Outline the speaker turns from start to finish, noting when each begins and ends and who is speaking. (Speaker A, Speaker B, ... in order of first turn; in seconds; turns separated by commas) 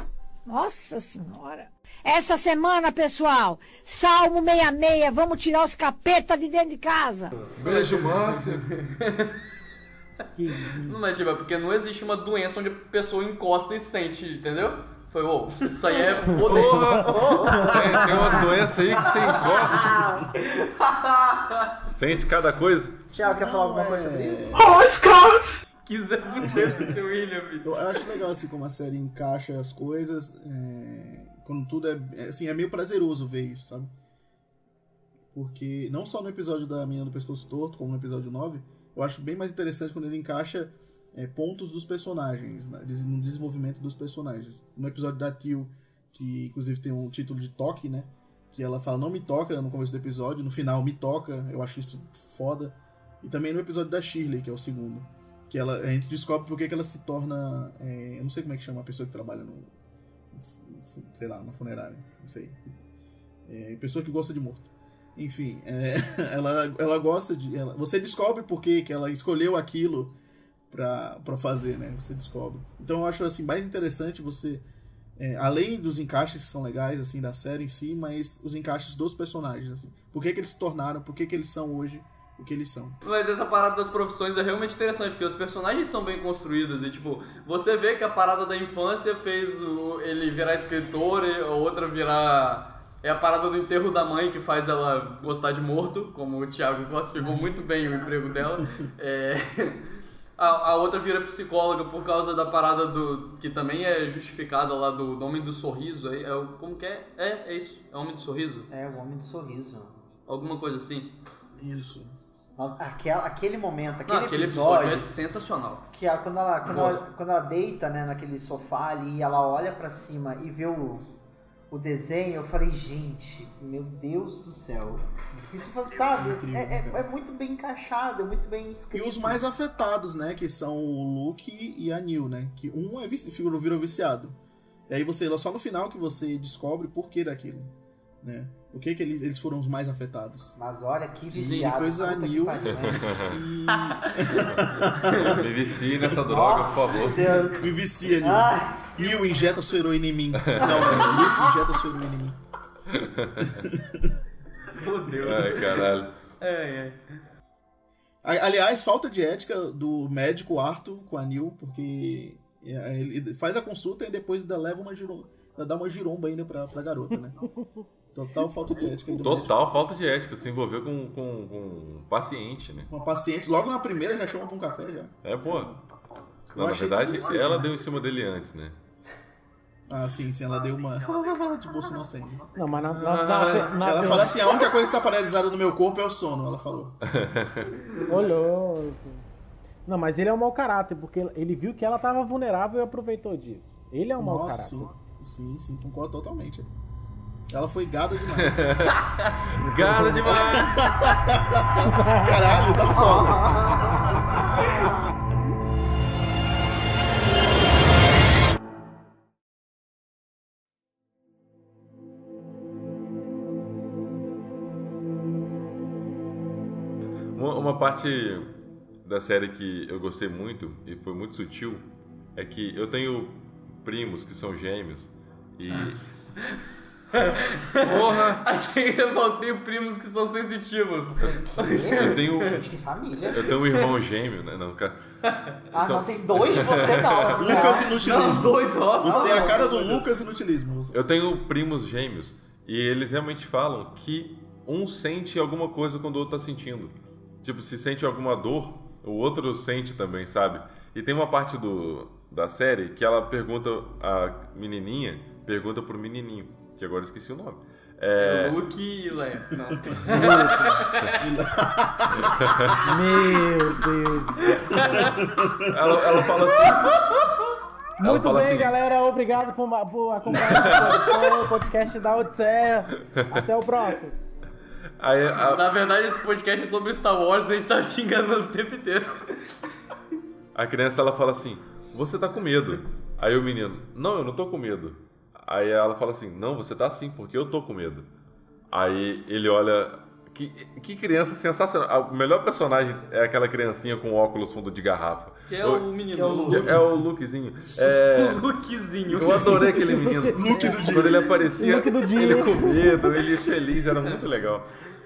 Speaker A: 0.5-7.3, Speaker B: 7.5-8.7, Speaker C: 7.6-9.4, Speaker D: 10.3-10.9, Speaker C: 10.7-18.2, Speaker B: 16.3-20.2, Speaker E: 17.0-20.3, Speaker C: 20.4-21.7, Speaker B: 21.8-23.0, Speaker E: 23.1-24.6, Speaker F: 23.2-24.8, Speaker C: 25.8-27.9, Speaker F: 26.6-26.9, Speaker F: 27.6-33.9, Speaker F: 35.3-59.7, Speaker F: 60.3-62.8, Speaker F: 63.5-70.1, Speaker F: 70.7-74.6, Speaker F: 75.2-83.0, Speaker C: 83.0-108.7, Speaker E: 108.7-110.0, Speaker C: 110.3-111.2, Speaker F: 111.6-112.1, Speaker E: 112.6-115.1, Speaker C: 114.0-115.9, Speaker E: 115.9-121.1, Speaker C: 116.7-117.0, Speaker E: 121.7-129.4, Speaker F: 126.1-127.0, Speaker F: 128.9-134.4, Speaker F: 134.9-140.5, Speaker E: 140.6-143.2, Speaker F: 141.3-146.2, Speaker C: 141.3-141.7, Speaker B: 142.7-143.4, Speaker C: 143.7-144.3, Speaker C: 145.1-145.4, Speaker B: 145.2-147.3, Speaker E: 146.2-148.9, Speaker F: 147.5-152.4, Speaker B: 150.4-150.8, Speaker E: 150.7-151.3, Speaker B: 152.9-153.7, Speaker F: 153.4-154.2, Speaker C: 154.6-157.0, Speaker B: 155.2-156.1, Speaker F: 158.2-167.4, Speaker F: 168.1-169.5, Speaker B: 169.1-172.9, Speaker F: 172.9-175.8, Speaker B: 175.2-175.7, Speaker F: 176.5-177.7, Speaker B: 176.5-178.8, Speaker F: 179.9-182.7, Speaker D: 182.6-184.4, Speaker B: 182.8-183.7, Speaker F: 183.7-187.0, Speaker B: 187.1-187.7, Speaker D: 188.1-189.2, Speaker D: 189.8-194.9, Speaker F: 194.2-196.7, Speaker F: 197.5-198.8, Speaker B: 198.4-200.8, Speaker D: 199.6-200.3, Speaker F: 199.8-203.6, Speaker D: 201.9-202.3, Speaker E: 202.9-204.9, Speaker B: 217.3-218.5, Speaker B: 219.0-226.0, Speaker C: 225.7-226.6, Speaker C: 227.1-232.5, Speaker B: 227.8-228.4, Speaker E: 231.2-233.5, Speaker B: 231.9-232.6, Speaker B: 233.3-235.0, Speaker C: 233.5-233.9, Speaker C: 235.3-235.5, Speaker E: 235.7-237.9, Speaker B: 235.7-237.7, Speaker F: 237.3-241.0, Speaker C: 237.8-240.0, Speaker E: 239.1-239.6, Speaker B: 240.9-258.6, Speaker C: 258.2-261.2, Speaker F: 259.7-262.4, Speaker D: 260.1-260.7, Speaker B: 262.2-262.9, Speaker D: 262.8-264.5, Speaker C: 264.5-265.2, Speaker F: 264.7-266.8, Speaker B: 265.6-267.3, Speaker D: 268.0-274.1, Speaker B: 268.0-268.7, Speaker B: 270.5-271.0, Speaker B: 273.1-273.4, Speaker B: 275.0-275.6, Speaker C: 275.4-279.6, Speaker B: 280.5-288.1, Speaker B: 288.7-298.5, Speaker C: 295.5-296.8, Speaker E: 296.1-296.8, Speaker C: 297.8-299.9, Speaker B: 299.1-304.6, Speaker F: 299.2-299.7, Speaker D: 300.1-300.6, Speaker F: 300.3-301.3, Speaker D: 301.6-303.0, Speaker C: 303.9-304.2